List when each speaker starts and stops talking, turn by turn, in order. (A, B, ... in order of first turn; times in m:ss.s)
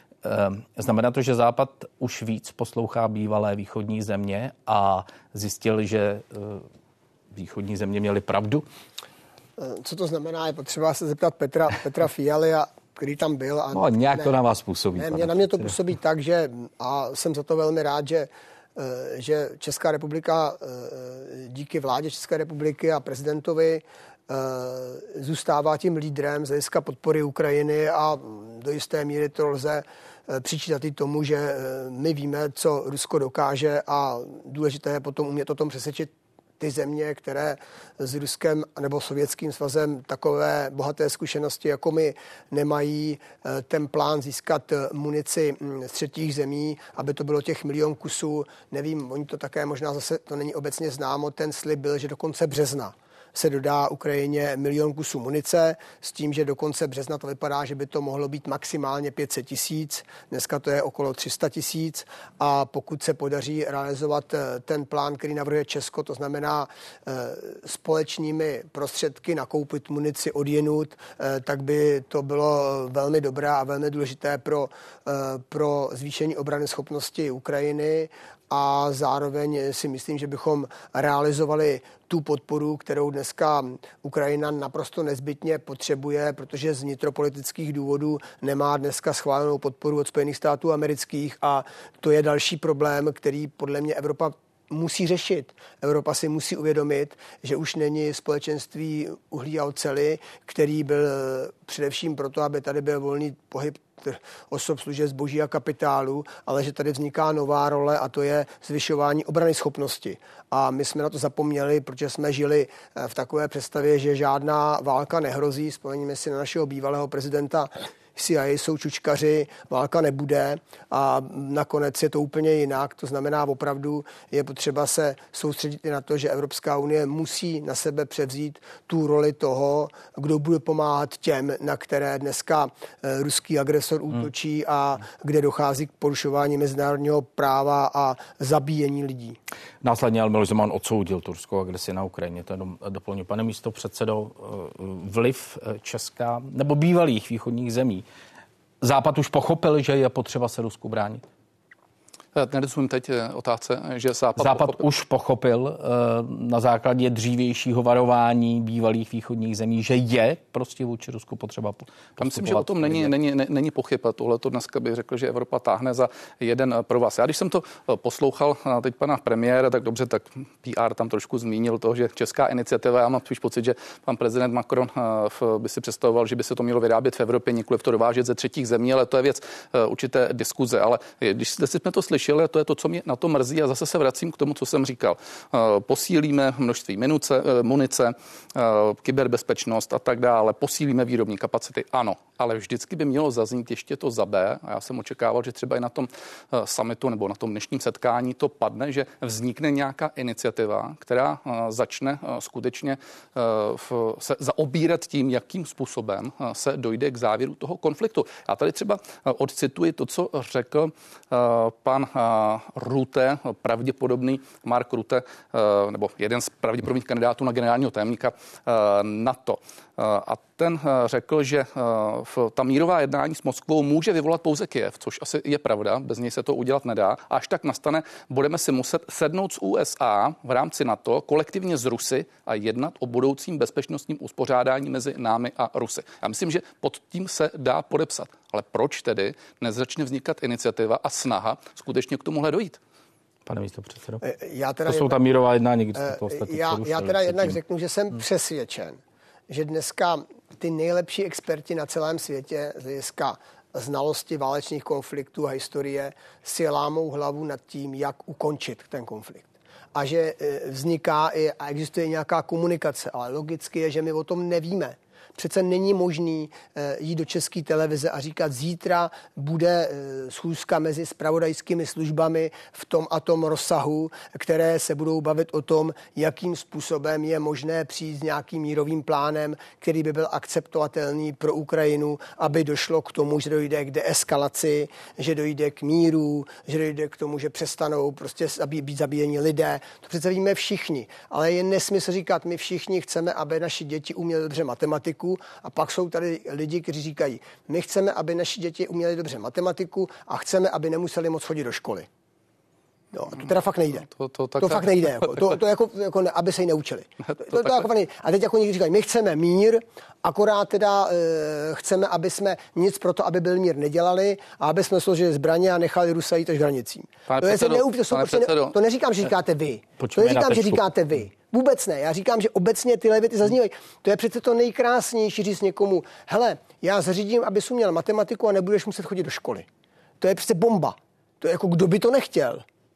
0:00.2-0:06.6 A
0:07.3-0:08.6 A
0:09.6-0:14.4 B
0:13.7-0:15.7 A
0:14.9-2:19.4 B
2:19.8-2:28.0 A
2:28.8-2:31.2 A
2:32.3-2:34.8 C
2:34.4-2:43.1 A
2:42.2-4:02.8 C
4:03.4-4:04.2 A
4:04.2-4:05.2 B
4:04.8-4:07.6 A
4:06.0-5:02.1 B
5:03.1-5:04.1 B
5:04.1-5:05.6 C
5:04.6-5:29.7 B
5:07.5-5:07.9 C
5:17.3-5:18.7 C
5:20.0-5:20.8 A
5:30.2-5:32.6 B